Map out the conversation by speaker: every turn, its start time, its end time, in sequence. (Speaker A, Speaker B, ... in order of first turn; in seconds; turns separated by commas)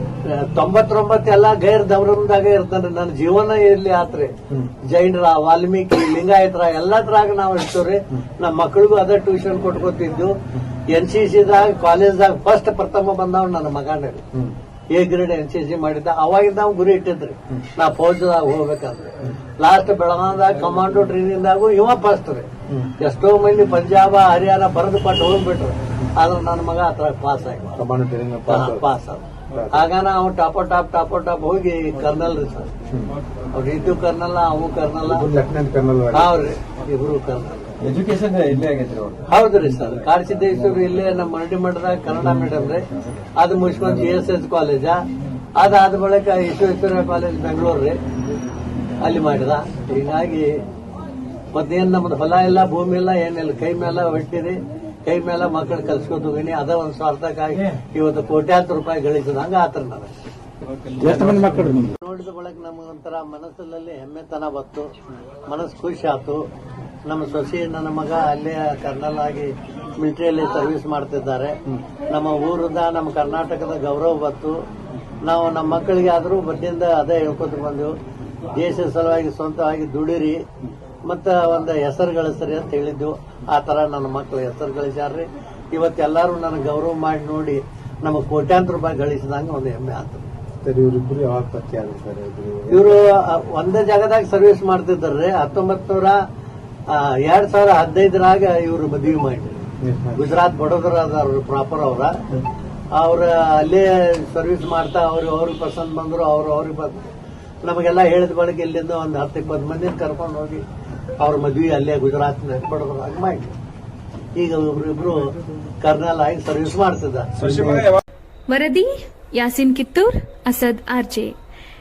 Speaker A: 0.2-4.3, Speaker A: 4.9-10.3, Speaker A: 10.9-14.2, Speaker A: 14.9-22.4, Speaker A: 23.0-27.8, Speaker B: 27.8-28.8, Speaker A: 28.5-32.7, Speaker B: 29.5-29.9, Speaker B: 32.9-33.1, Speaker A: 33.5-35.3, Speaker B: 35.0-36.4, Speaker A: 36.1-37.9, Speaker C: 37.8-39.2, Speaker A: 39.3-42.8, Speaker A: 43.4-45.0, Speaker A: 45.5-48.0, Speaker A: 49.0-50.6, Speaker A: 51.5-60.1, Speaker C: 61.0-61.7, Speaker A: 61.0-64.9, Speaker B: 61.1-61.8, Speaker A: 65.5-66.4, Speaker A: 67.1-71.5, Speaker A: 72.1-74.5, Speaker A: 75.2-77.9, Speaker A: 78.5-80.4, Speaker A: 81.1-90.2, Speaker B: 90.6-93.0, Speaker A: 92.7-96.2, Speaker A: 96.9-99.6, Speaker B: 99.8-100.2, Speaker A: 100.2-102.3, Speaker A: 103.0-107.0, Speaker A: 107.6-110.6, Speaker A: 111.2-113.5, Speaker A: 114.3-115.2, Speaker A: 115.8-117.3, Speaker B: 117.4-118.0, Speaker D: 118.5-118.8, Speaker D: 119.4-121.3